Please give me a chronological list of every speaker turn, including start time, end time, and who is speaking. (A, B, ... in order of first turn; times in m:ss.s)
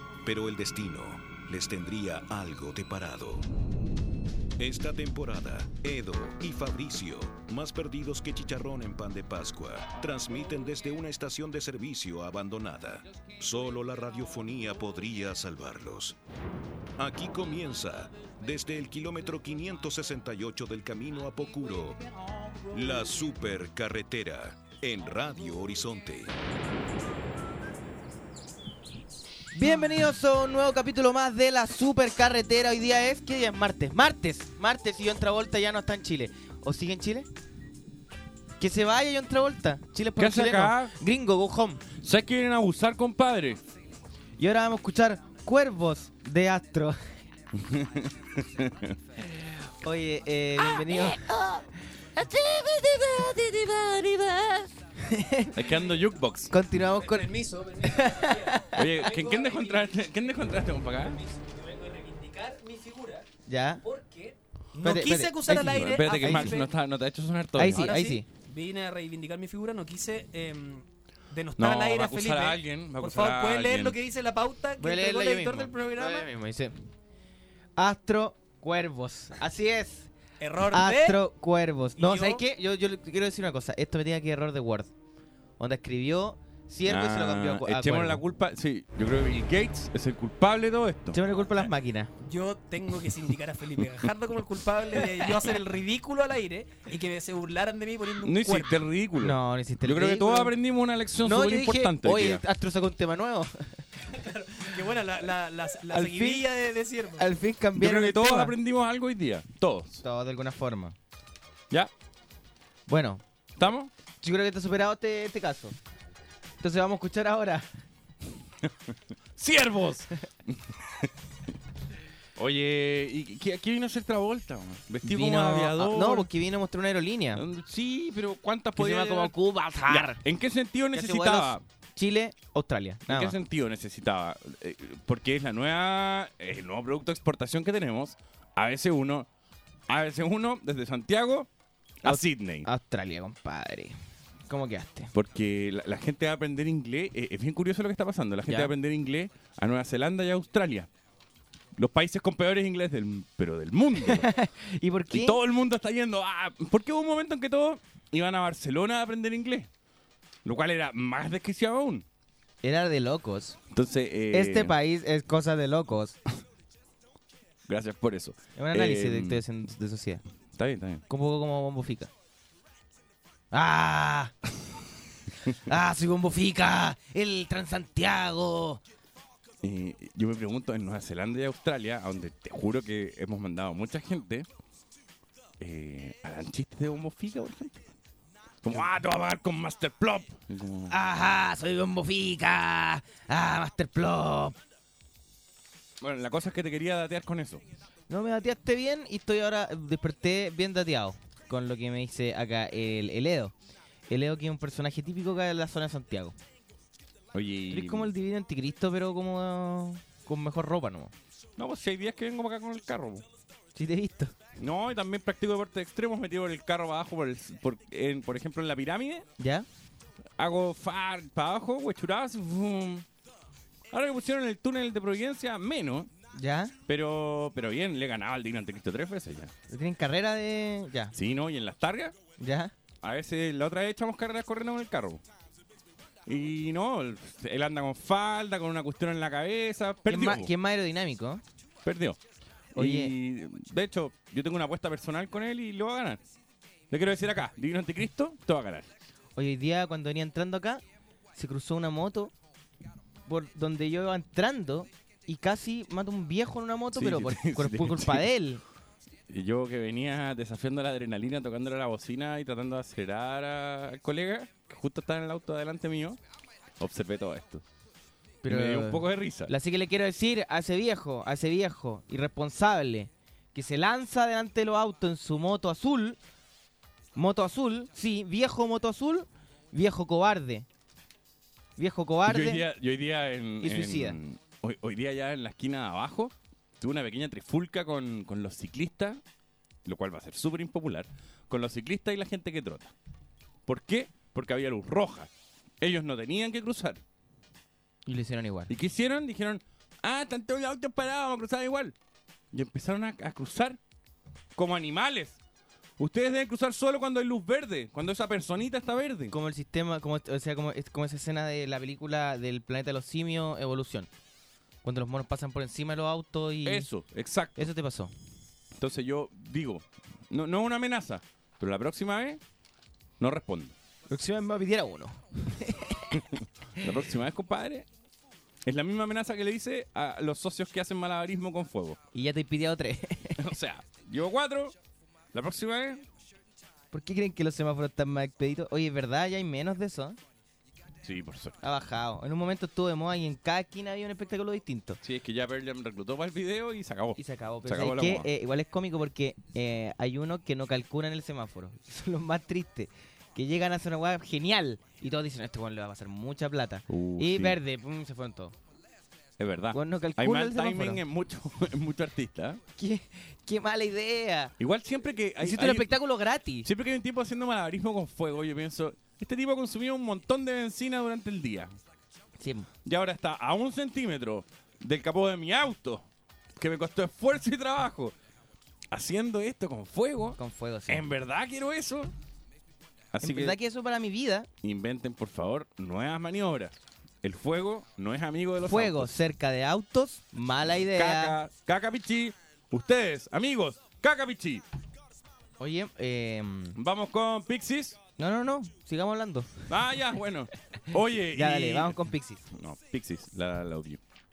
0:00.2-0:03.5 A
0:04.6-0:16.2 A
0:17.0-0:22.0 A
0:22.7-0:26.3 A
0:29.5-0:37.3 B
0:38.6-0:41.8 B
0:40.2-0:40.9 C
0:42.0-0:43.6 C
0:44.4-0:47.0 B
0:47.6-0:49.0 C
0:49.3-0:51.6 B
0:52.2-0:55.6 B
0:55.6-0:56.5 C
0:56.5-0:58.9 B
0:57.1-0:59.9 D
0:58.7-1:01.2 C
1:01.1-1:03.2 D
1:03.5-1:03.8 B
1:03.8-1:06.7 D
1:04.8-1:06.6 B
1:05.4-1:07.9 C
1:07.6-1:08.3 B
1:07.7-1:16.3 D
1:11.6-1:14.0 C
1:14.8-1:16.8 B
1:17.8-1:20.1 B
1:20.4-1:21.2 D
1:20.7-1:24.9 B
1:22.0-1:22.4 D
1:25.6-1:28.2 B
1:26.9-1:31.5 C
1:31.1-1:32.1 B
1:32.2-1:38.7 D
1:33.8-1:34.1 C
1:38.2-1:42.4 C
1:39.2-1:40.5 B
1:41.2-1:43.9 B
1:44.2-1:47.2 D
1:45.9-1:46.5 B
1:47.2-1:48.5 B
1:47.8-1:50.0 C
1:50.0-1:50.9 B
1:52.9-1:53.2 B
1:53.6-1:53.9 C
1:54.2-1:55.8 B
1:56.6-1:57.7 B
1:59.4-2:01.1 C
2:02.4-2:06.3 C
2:05.0-2:07.4 B
2:07.4-2:09.3 C
2:08.8-2:10.2 B
2:09.9-2:11.6 C
2:10.9-2:13.3 B
2:13.1-2:19.3 C
2:19.9-2:21.5 C
2:22.0-2:22.7 C
2:22.0-2:24.0 B
2:24.5-2:25.1 B
2:25.1-2:30.9 C
2:31.8-2:34.3 C
2:34.0-2:35.4 B
2:35.1-2:39.7 C
2:40.4-2:42.0 C
2:42.6-2:43.6 B
2:43.7-2:44.7 C
2:44.3-2:46.2 B
2:47.7-2:49.4 C
2:48.6-2:50.2 B
2:50.6-2:51.0 C
2:51.1-2:52.1 B
2:53.5-2:54.3 B
2:55.6-2:58.8 B
2:59.6-3:04.5 C
3:05.6-3:07.8 C
3:08.6-3:10.9 C
3:10.9-3:14.6 B
3:16.0-3:17.6 C
3:18.1-3:23.5 B
3:24.1-3:26.4 B
3:27.3-3:28.1 C
3:27.7-3:31.1 B
3:31.6-3:33.2 C
3:33.8-3:34.3 B
3:34.6-3:39.2 C
3:39.4-3:39.7 B
3:40.4-3:43.0 C
3:43.9-3:46.1 C
3:46.3-3:46.8 B
3:46.9-3:49.5 C
3:49.7-3:51.1 B
3:51.1-3:52.1 C
3:52.4-3:52.7 B
3:53.0-3:55.2 C
3:56.2-4:00.5 C
4:00.1-4:01.4 B
4:01.8-4:02.2 C
4:02.8-4:03.1 B
4:02.8-4:06.2 C
4:06.9-4:08.9 C
4:09.4-4:10.8 B
4:11.4-4:12.3 B
4:13.3-4:18.6 B
4:16.9-4:18.3 C
4:19.3-4:26.2 C
4:26.8-4:27.6 C
4:28.4-4:36.2 B
4:28.5-4:29.5 C
4:37.2-4:40.7 B
4:41.8-4:42.6 B
4:42.2-4:49.2 C
4:43.6-4:44.2 B
4:49.8-4:52.9 C
4:53.7-4:55.3 C
4:55.8-4:57.0 C
4:58.1-4:58.7 B
4:58.7-5:01.9 C
5:02.5-5:03.8 C
5:04.6-5:05.4 C
5:06.0-5:09.3 C
5:09.3-5:14.1 B
5:14.8-5:16.9 B
5:16.6-5:17.7 C
5:17.6-5:18.1 B
5:18.8-5:22.4 C
5:23.2-5:23.8 C
5:24.1-5:26.1 B
5:26.1-5:27.9 C
5:28.6-5:32.0 C
5:32.1-5:33.4 B
5:33.4-5:34.7 C
5:35.3-5:36.0 C
5:36.9-5:40.2 B
5:41.0-5:41.6 C
5:41.6-5:45.0 B
5:45.0-5:48.3 C
5:47.2-5:58.6 B
5:56.9-5:57.6 C
5:59.4-6:02.6 C
5:59.7-6:01.0 B
6:02.8-6:04.5 B
6:04.6-6:05.9 C
6:05.4-6:06.7 B
6:06.6-6:11.7 C
6:12.4-6:12.7 B
6:12.8-6:16.0 C
6:16.6-6:18.1 C
6:18.9-6:22.1 C
6:20.4-6:21.1 B
6:23.1-6:23.6 C
6:23.2-6:24.5 B
6:24.6-6:29.1 C
6:28.7-6:31.4 B
6:30.8-6:34.6 C
6:35.6-6:36.8 B
6:36.8-6:38.0 C
6:38.2-6:39.7 B
6:39.7-6:42.0 C
6:41.3-6:42.4 B
6:42.5-6:44.0 C